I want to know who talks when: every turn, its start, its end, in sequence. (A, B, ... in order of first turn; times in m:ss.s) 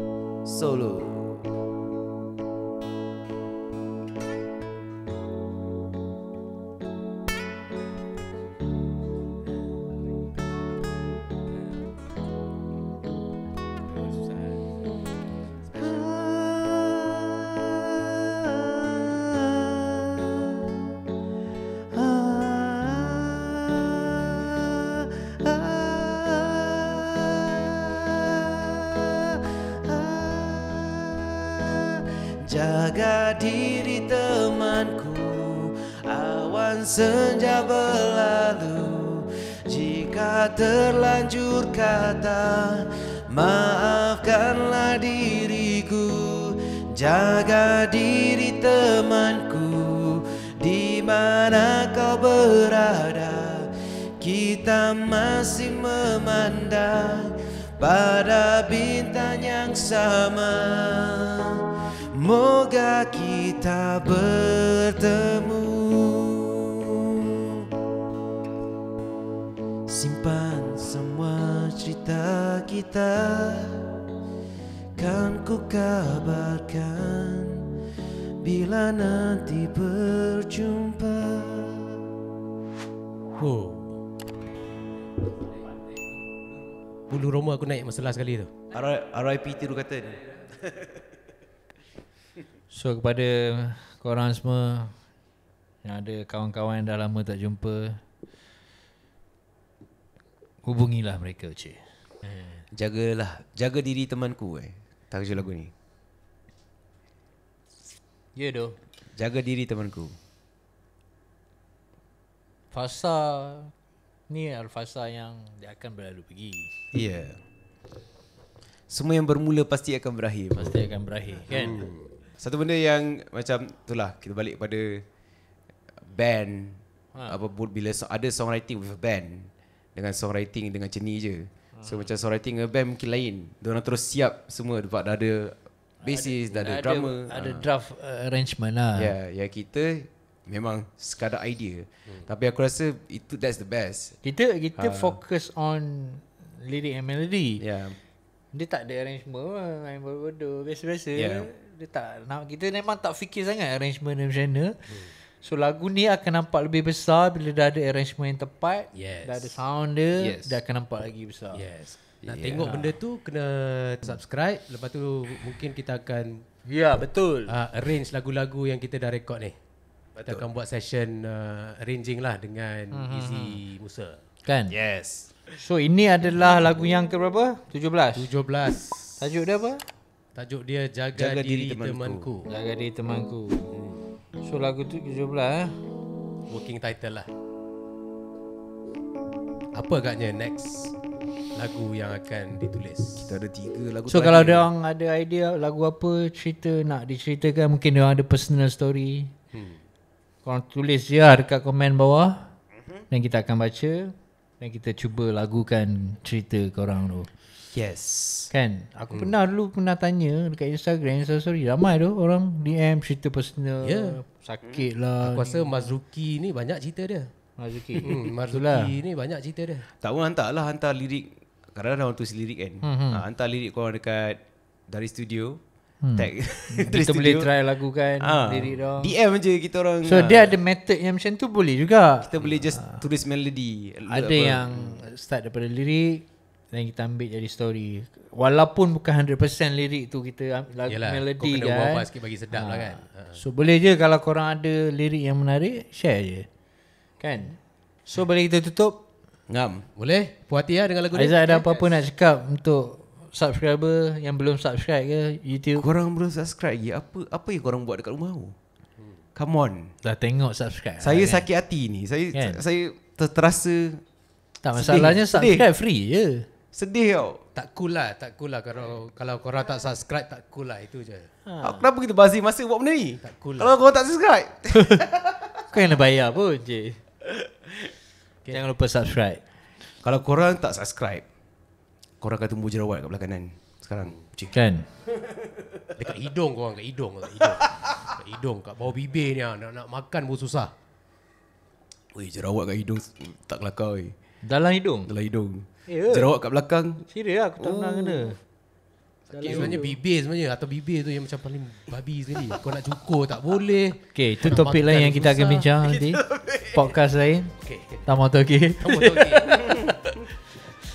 0:00.4-0:01.5 A
0:15.7-0:20.9 A
0:21.9-1:07.7 A
1:09.9-1:13.9 A
1:14.9-1:17.7 A
1:18.4-1:22.1 A
1:23.4-1:24.0 B
1:27.1-1:28.5 B
1:28.7-1:31.0 A
1:32.7-1:35.0 C
1:35.8-1:38.0 C
1:40.6-1:42.6 C
1:42.7-1:45.7 A
1:48.4-1:48.8 C
1:49.1-1:50.2 A
1:52.7-1:53.7 C
1:54.3-1:56.7 C
1:56.9-1:57.4 A
1:58.9-2:00.8 A
2:00.6-2:01.9 C
2:01.5-2:02.1 B
2:02.4-2:05.0 A
2:06.0-2:17.6 A
2:07.1-2:07.4 C
2:11.8-2:12.1 C
2:16.0-2:19.1 C
2:19.0-2:24.2 A
2:24.2-2:27.6 C
2:24.8-2:25.2 A
2:27.6-2:28.0 A
2:28.5-2:41.6 C
2:31.2-2:31.5 A
2:38.9-2:39.6 B
2:40.2-2:40.6 A
2:41.5-2:46.4 B
2:42.2-2:42.8 A
2:46.7-2:47.5 C
2:47.4-2:49.5 B
2:50.2-2:50.5 A
2:50.2-2:54.2 B
2:52.9-2:53.6 C
2:54.4-2:54.8 C
2:54.7-2:55.3 A
2:55.6-2:58.3 C
2:58.2-2:59.2 B
2:59.2-2:59.8 C
3:00.3-3:02.5 B
3:01.1-3:02.3 A
3:02.5-3:03.7 C
3:04.4-3:05.8 C
3:06.5-3:07.3 B
3:09.7-3:10.9 B
3:11.5-3:13.3 B
3:13.2-3:14.7 A
3:14.1-3:19.3 C
3:19.5-3:19.8 B
3:20.4-3:22.5 C
3:23.1-3:27.3 C
3:27.7-3:28.5 A
3:28.5-3:36.0 C
3:33.8-3:34.2 B
3:35.2-3:37.3 B
3:37.6-3:38.9 C
3:38.0-3:39.9 B
3:40.0-3:45.6 A
3:42.8-3:43.2 C
3:46.0-3:49.2 C
3:46.2-3:47.5 A
3:48.2-3:50.6 A
3:50.0-3:53.0 C
3:52.2-3:55.0 A
3:54.1-4:06.5 C
4:00.9-4:03.4 B
4:07.2-4:09.0 C
4:09.5-4:09.9 A
4:10.0-4:11.9 B
4:11.1-4:15.8 C
4:15.8-4:18.6 A
4:19.3-4:19.9 A
4:20.0-4:21.5 C
4:21.0-4:24.0 A
4:22.3-4:22.6 C
4:24.6-4:26.5 C
4:24.7-4:25.7 A
4:26.7-4:27.4 A
4:27.5-4:31.3 B
4:31.4-4:31.8 C
4:31.6-4:35.6 A
4:33.2-4:33.8 B
4:35.7-4:37.0 C
4:37.3-4:37.9 A
4:38.5-4:39.4 C
4:40.0-4:41.2 A
4:42.2-4:44.5 A
4:44.5-4:44.9 C
4:45.9-4:50.7 B
4:47.4-4:47.9 A
4:52.1-4:54.2 A
4:54.4-4:55.1 C
4:55.1-4:57.1 A
4:55.9-4:56.3 C
4:57.1-4:58.4 C
4:57.6-4:58.4 A
4:59.3-5:00.0 C
4:59.3-4:59.8 A
4:59.4-5:05.6 B
5:04.1-5:09.9 C
5:05.6-5:07.0 A
5:07.6-5:08.0 B
5:08.8-5:09.7 B
5:09.5-5:10.0 A